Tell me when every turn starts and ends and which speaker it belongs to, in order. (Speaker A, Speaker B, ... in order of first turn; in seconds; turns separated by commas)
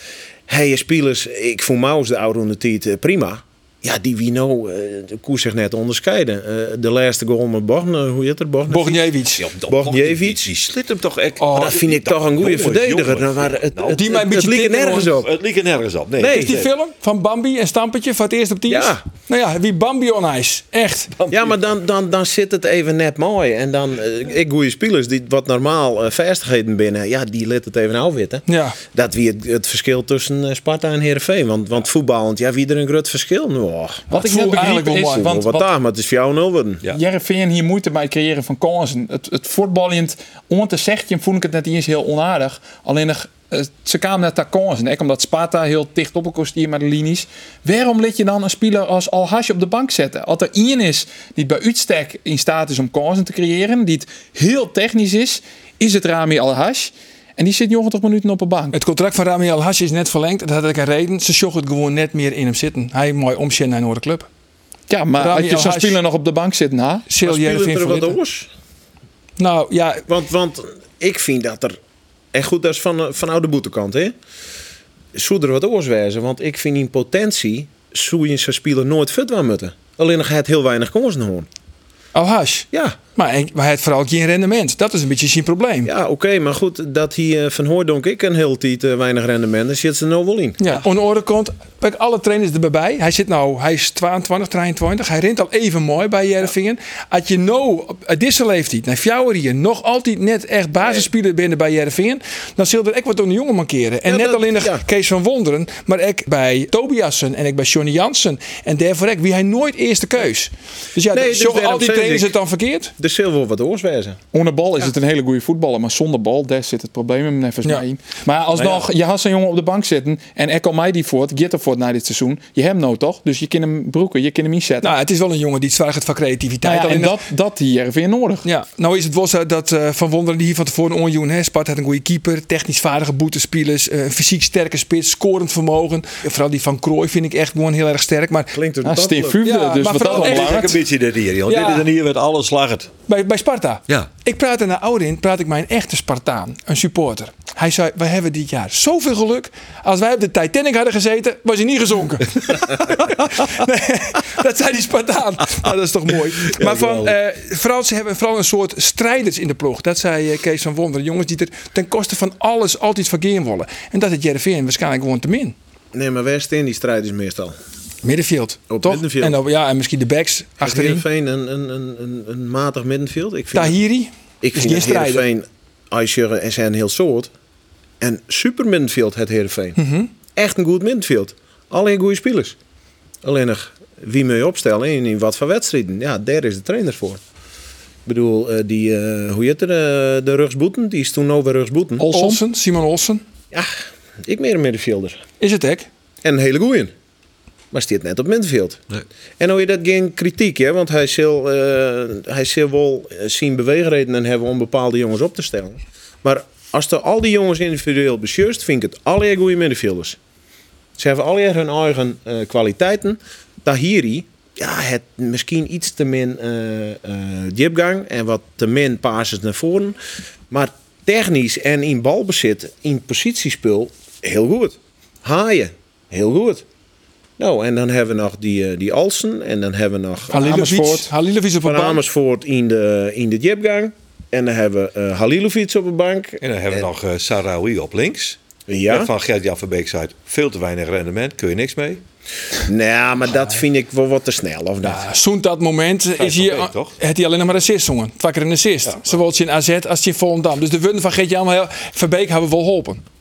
Speaker A: 0.5-9.1, Speaker B: 8.7-9.4, Speaker C: 9.4-14.0, Speaker A: 9.7-10.5, Speaker B: 11.4-11.8, Speaker A: 11.5-15.3, Speaker B: 13.9-15.2, Speaker C: 15.1-16.7, Speaker A: 16.2-16.6, Speaker B: 16.2-21.1, Speaker A: 18.7-19.0, Speaker C: 21.2-21.5, Speaker A: 21.3-34.1, Speaker B: 28.5-28.8, Speaker D: 34.1-35.7, Speaker B: 34.1-35.4, Speaker A: 35.2-36.8, Speaker D: 36.9-58.8, Speaker B: 58.7-64.3, Speaker D: 64.9-67.0, Speaker B: 65.2-66.0, Speaker B: 67.1-68.2, Speaker A: 67.2-68.5, Speaker B: 69.4-70.0, Speaker A: 70.1-71.8, Speaker A: 72.3-74.2, Speaker A: 75.2-81.5, Speaker B: 82.2-85.9, Speaker A: 82.7-83.0, Speaker A: 85.8-90.6, Speaker B: 90.6-112.9, Speaker A: 100.8-101.1, Speaker A: 104.1-104.8, Speaker A: 111.1-112.3, Speaker A: 113.0-114.2, Speaker D: 114.3-124.9, Speaker C: 118.5-118.9, Speaker B: 124.8-127.2, Speaker D: 126.6-128.5, Speaker B: 128.4-138.6, Speaker A: 138.5-139.4, Speaker D: 138.8-140.7, Speaker B: 139.4-140.8, Speaker C: 140.0-142.9, Speaker B: 141.5-141.9, Speaker B: 143.1-165.6, Speaker C: 156.5-157.1, Speaker A: 165.9-167.6, Speaker B: 168.0-171.0, Speaker A: 168.7-169.4, Speaker A: 170.6-173.8, Speaker B: 173.6-175.2, Speaker A: 174.4-177.3, Speaker A: 178.0-179.8, Speaker B: 179.8-180.1, Speaker A: 180.4-182.6, Speaker A: 183.2-187.2, Speaker A: 188.1-192.1, Speaker D: 192.0-192.4, Speaker B: 192.1-193.2, Speaker A: 194.2-195.2, Speaker B: 195.4-195.9, Speaker A: 196.2-196.9, Speaker A: 197.7-198.8, Speaker A: 199.4-210.2, Speaker A: 211.0-220.0, Speaker A: 220.5-226.6, Speaker A: 227.4-231.1, Speaker B: 230.3-232.0, Speaker A: 231.6-236.9, Speaker C: 236.4-242.0, Speaker A: 238.7-239.1, Speaker A: 242.7-245.1, Speaker B: 244.8-253.0, Speaker C: 246.2-246.9